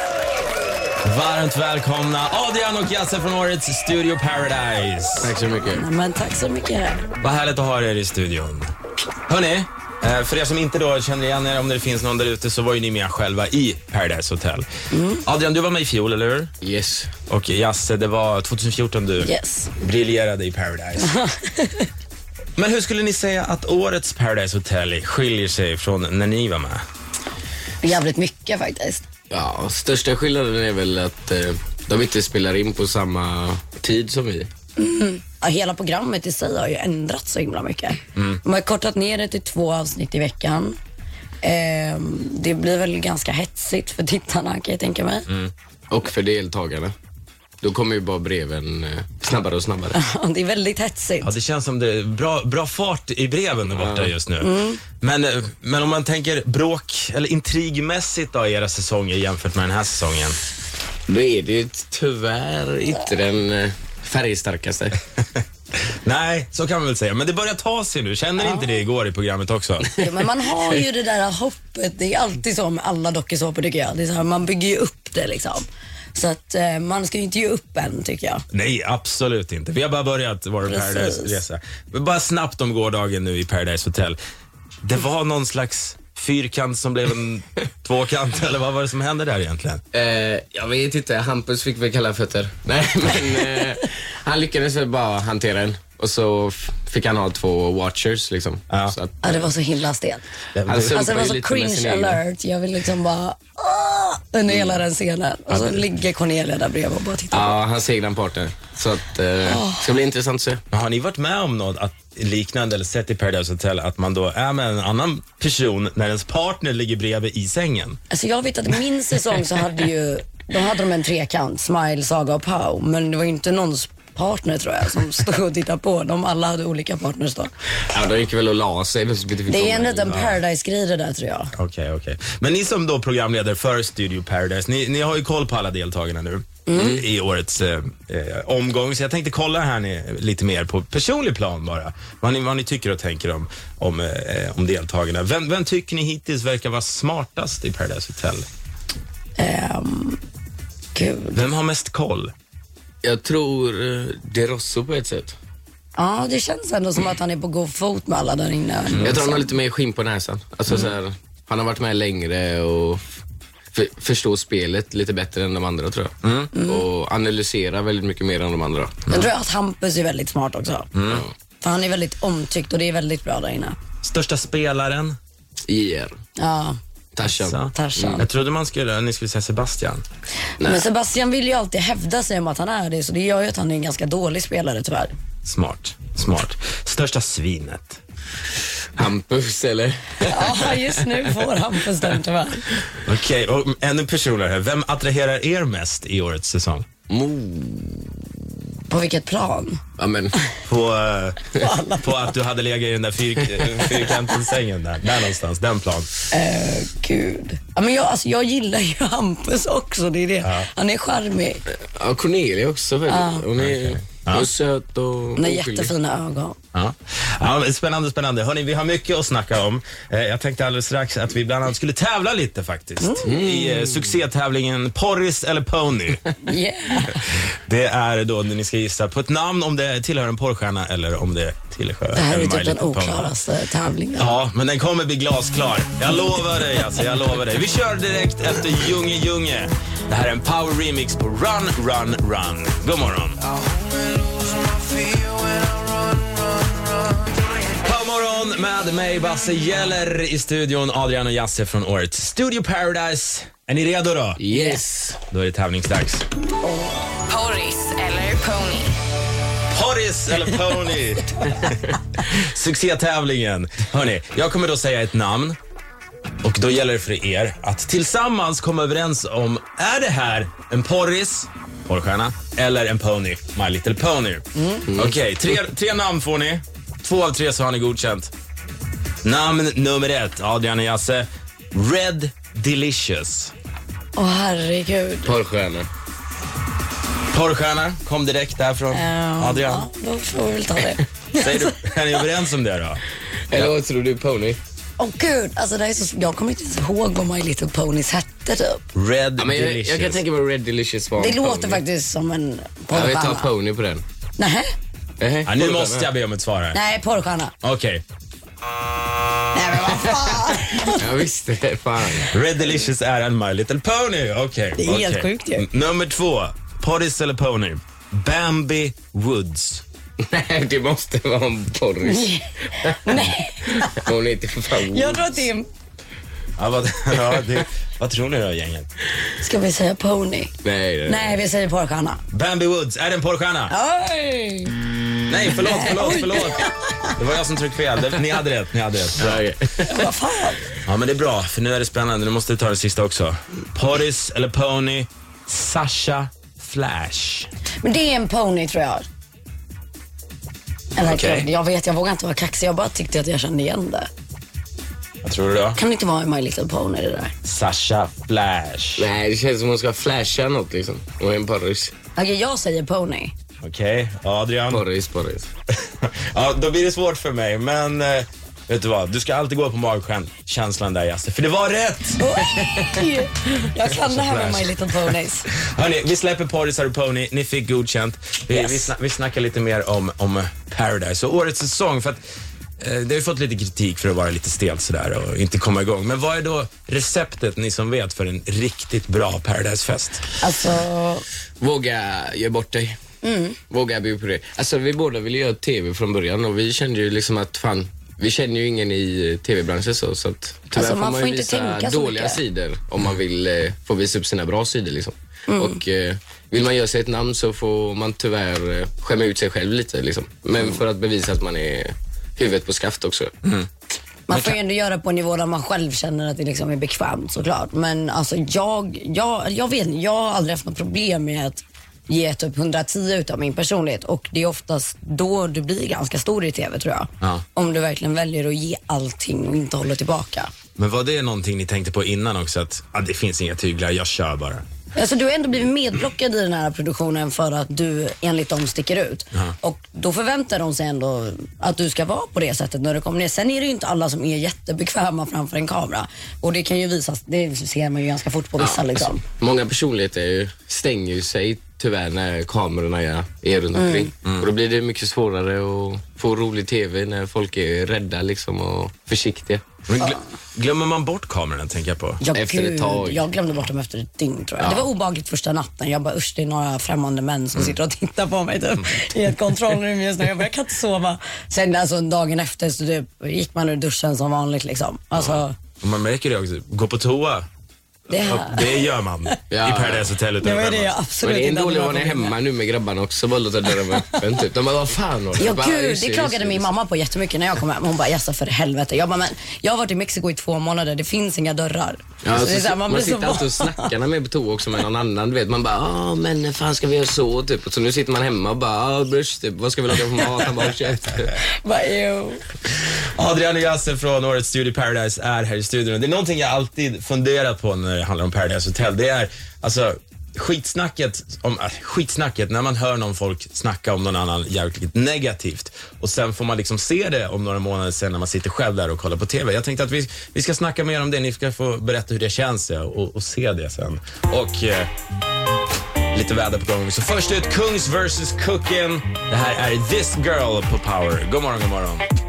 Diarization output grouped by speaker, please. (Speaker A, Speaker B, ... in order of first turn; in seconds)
Speaker A: 1.0-5.3, 7.2-8.7, 9.3-14.7, 15.2-16.5, 17.3-21.1, 22.6-26.8, 38.1-38.4, 51.2-60.4, 66.0-70.0, 78.5-84.2, 84.8-89.8, 98.7-99.0, 100.5-101.1, 105.5-105.8, 110.7-118.0, 130.0-130.4, 131.5-148.5, 151.4-152.3, 166.2-166.6, 170.9-171.2, 174.0-175.2, 177.2-180.0, 185.4-188.0, 193.0-196.9, 200.7-206.1, 210.4-210.7, 213.6-214.5, 216.7-226.2, 227.0-233.3, 234.2-243.4, 247.8-254.4, 255.2-256.2, 259.7-265.6, 266.4-274.4, 275.0-278.3, 279.2-283.5, 287.3-289.9, 291.4-293.0, 298.9-300.2, 305.5-306.8, 307.6-308.0, 312.3-319.8, 326.6-328.9, 332.3-333.7, 335.3-339.4, 340.8-347.5, 351.1-351.5, 355.2-355.8, 357.4-359.1, 363.6-364.8, 365.7-372.9, 373.9-374.8, 375.5-382.2, 382.8-390.3, 414.3-414.6, 430.8-434.6, 454.2-454.5, 459.9-462.2, 475.1-477.5, 478.2-481.0, 503.2-524.9, 526.1-532.0
Speaker B: 5.2-5.8, 16.6-17.1, 29.3-34.5, 45.9-46.9, 47.6-50.0, 53.7-54.1, 61.1-65.0, 89.9-99.5, 100.7-102.2, 104.5-104.8, 107.3-110.6, 127.9-130.2, 136.8-137.0, 153.0-155.3, 159.0-163.0, 163.7-169.2, 175.7-176.1, 177.2-178.3, 180.6-180.9, 189.0-191.2, 197.1-198.2, 200.0-200.4, 211.9-215.9, 223.2-224.2, 244.3-246.8, 254.4-255.2, 274.9-275.2, 285.3-285.9, 293.5-294.6, 299.4-301.8, 302.9-304.0, 305.2-306.1, 311.0-312.3, 320.3-325.4, 330.6-331.4, 339.2-340.1, 359.0-361.9, 364.7-365.5, 391.6-393.0, 393.7-413.3, 448.6-459.6, 462.3-463.3, 464.6-464.9, 479.5-480.1, 481.2-486.7, 492.2-501.3
Speaker C: 5.7-7.1, 14.9-15.2, 19.2-19.7, 21.0-21.9, 27.8-29.1, 34.8-40.8, 41.4-45.3, 49.9-51.3, 54.4-54.8, 68.4-68.8, 70.0-78.4, 80.7-81.4, 99.2-100.2, 100.9-107.6, 109.4-109.9, 118.1-127.5, 129.5-131.5, 136.7-137.0, 149.4-150.2, 150.9-151.4, 156.0-159.5, 166.5-166.8, 169.1-170.9, 171.6-173.8, 176.4-176.8, 177.7-178.2, 180.6-185.1, 190.3-192.6, 198.9-199.8, 201.5-202.2, 203.9-204.4, 206.3-211.6, 213.1-213.5, 215.4-216.6, 223.0-223.4, 226.4-227.2, 232.1-234.4, 254.5-254.8, 256.6-258.9, 274.6-274.9, 284.2-285.3, 288.9-291.9, 295.0-298.8, 301.2-303.5, 304.4-304.7, 306.7-307.5, 309.5-311.1, 314.8-315.7, 322.0-324.1, 324.8-325.7, 329.4-330.5, 331.1-332.2, 333.7-334.8, 335.5-337.1, 339.9-340.7, 347.8-349.1, 351.0-354.1, 355.8-357.3, 362.2-363.3, 372.2-375.5, 378.5-378.9, 390.4-391.2, 393.2-393.6, 400.7-402.4, 405.5-405.8, 414.3-430.5, 434.9-449.2, 453.8-454.1, 462.2-475.5, 478.1-479.4, 480.4-482.4, 483.9-484.2, 485.4-493.9, 501.4-502.4